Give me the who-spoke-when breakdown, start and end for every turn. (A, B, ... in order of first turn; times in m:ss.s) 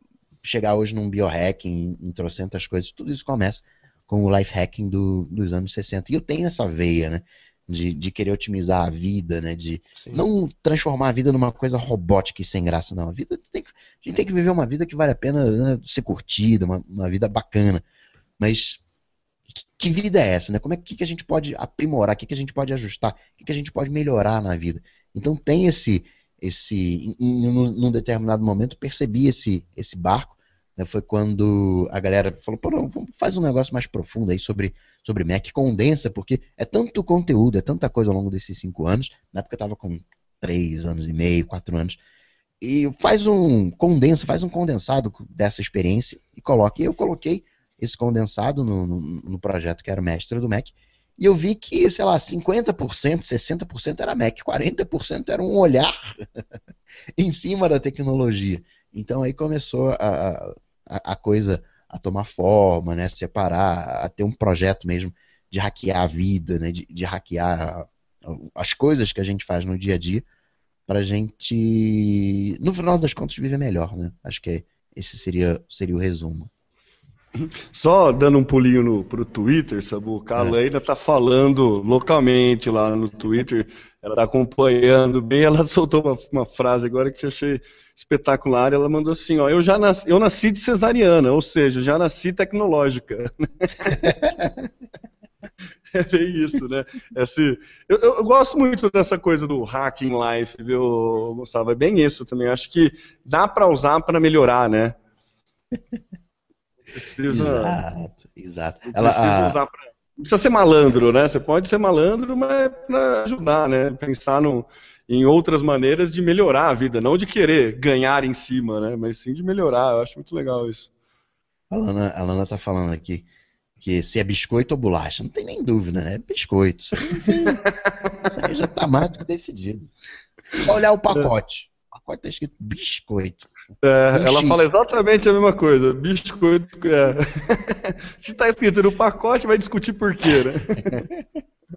0:00.4-0:17.8 A
0:18.4-0:18.8 A
0:19.5-0:42.0 A
0:42.6-0:56.2 A
0:57.2-1:10.2 A
1:10.9-1:16.5 A
1:17.4-1:34.1 B
1:34.0-1:34.5 A
1:35.9-1:45.0 B
1:46.9-1:47.8 B
1:47.3-1:49.6 A
1:48.9-2:00.9 B
2:01.7-2:03.2 A
2:03.8-2:07.6 A
2:07.4-2:08.2 B
2:08.2-2:09.9 A
2:10.5-2:13.5 A
2:13.8-2:21.0 B
2:14.1-2:14.6 A